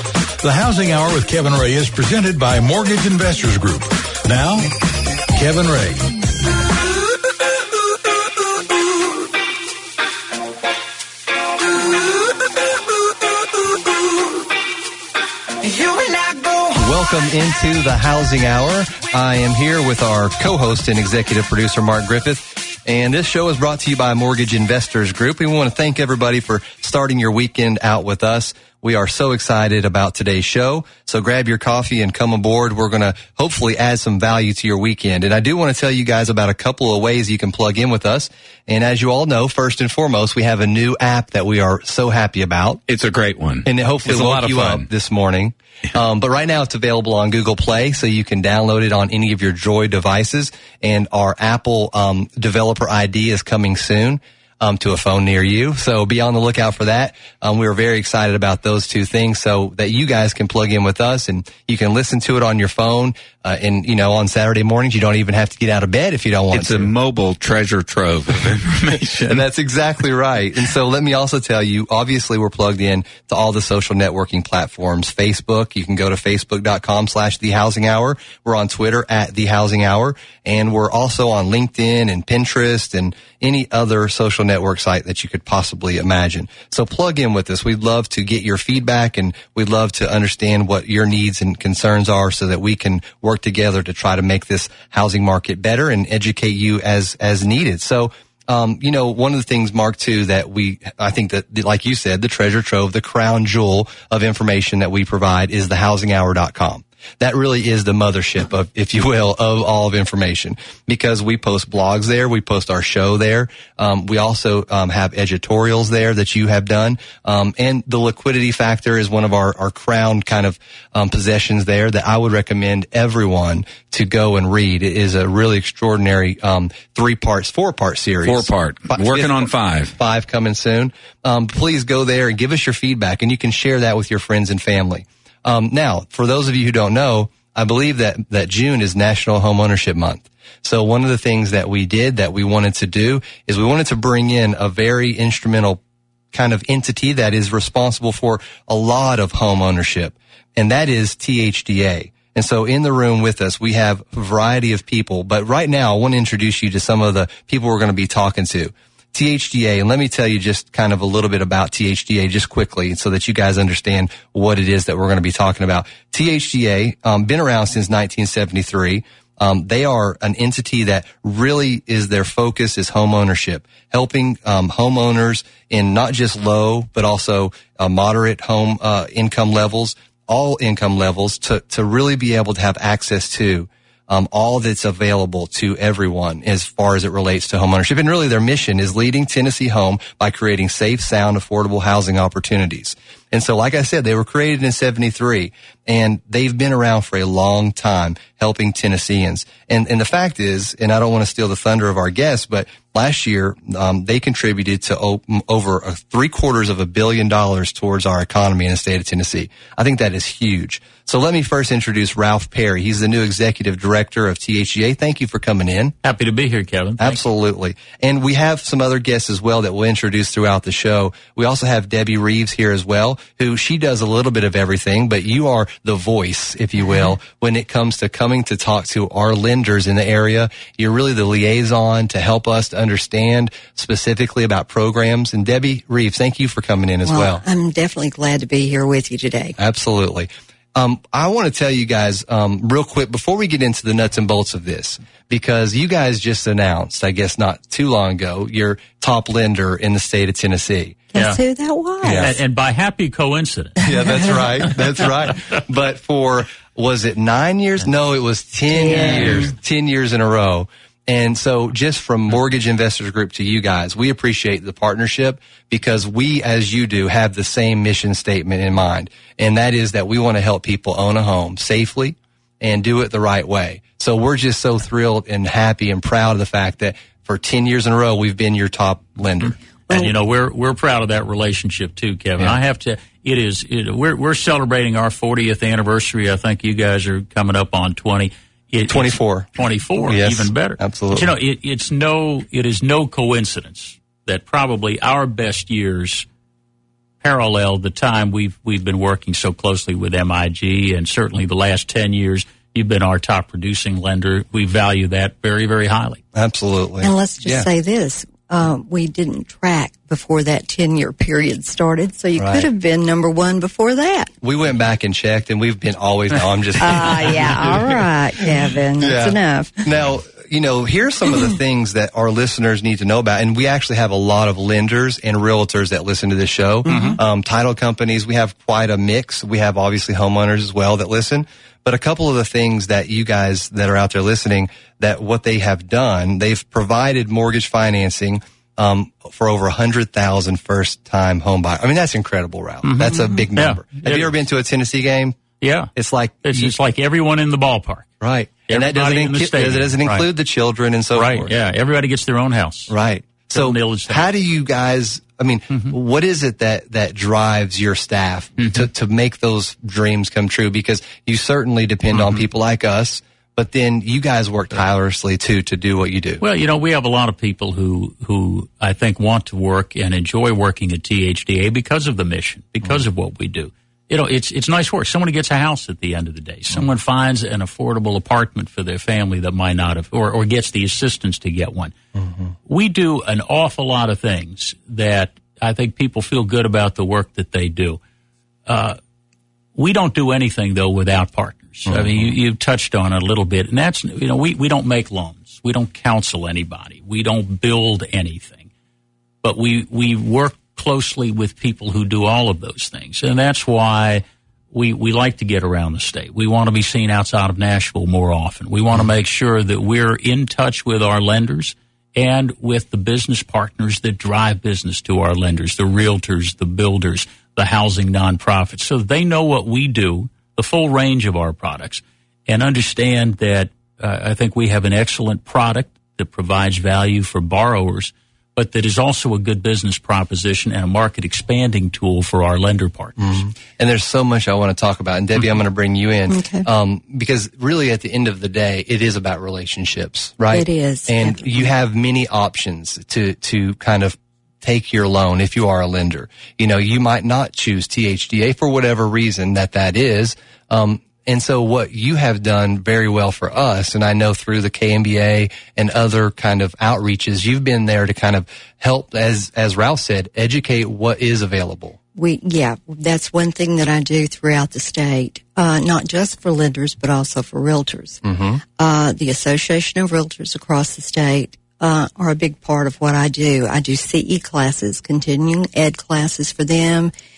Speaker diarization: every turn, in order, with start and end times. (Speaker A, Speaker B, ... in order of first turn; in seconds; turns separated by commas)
Speaker A: 0.4-4.7, Speaker A: 5.3-6.0, Speaker B: 16.7-42.8, Speaker C: 42.9-44.9, Speaker B: 43.7-66.9, Speaker C: 66.5-69.4, Speaker B: 69.3-145.8, Speaker C: 128.2-129.9, Speaker B: 146.3-215.9, Speaker D: 216.0-217.2, Speaker B: 217.0-237.4, Speaker E: 237.1-239.6, Speaker B: 239.6-251.0, Speaker E: 251.1-252.3, Speaker B: 252.1-252.3, Speaker D: 252.1-253.8, Speaker B: 253.8-279.6, Speaker E: 253.9-254.4, Speaker E: 258.7-259.5, Speaker D: 258.9-259.5, Speaker D: 279.5-296.2, Speaker B: 288.9-289.5, Speaker B: 290.0-291.3, Speaker D: 297.2-306.2, Speaker B: 306.4-307.7, Speaker E: 307.0-314.3, Speaker B: 312.4-312.7, Speaker B: 314.4-317.9, Speaker E: 316.8-319.9, Speaker B: 319.0-345.4, Speaker D: 326.9-327.2, Speaker D: 342.8-344.3, Speaker D: 345.6-345.9, Speaker B: 345.9-346.7, Speaker D: 346.4-348.1, Speaker B: 348.2-351.5, Speaker D: 348.7-350.3, Speaker D: 351.1-352.9, Speaker B: 352.9-366.4, Speaker D: 353.5-354.2, Speaker D: 355.7-355.9, Speaker D: 358.6-358.9, Speaker D: 362.1-362.4, Speaker D: 366.4-381.9, Speaker B: 382.2-382.5, Speaker D: 382.7-388.0, Speaker D: 388.7-389.0, Speaker D: 389.8-398.7, Speaker B: 391.9-392.3, Speaker D: 399.4-433.4, Speaker B: 433.2-462.0, Speaker E: 436.3-436.7, Speaker E: 440.5-441.7, Speaker E: 462.1-468.2, Speaker B: 468.2-468.6, Speaker E: 468.8-477.1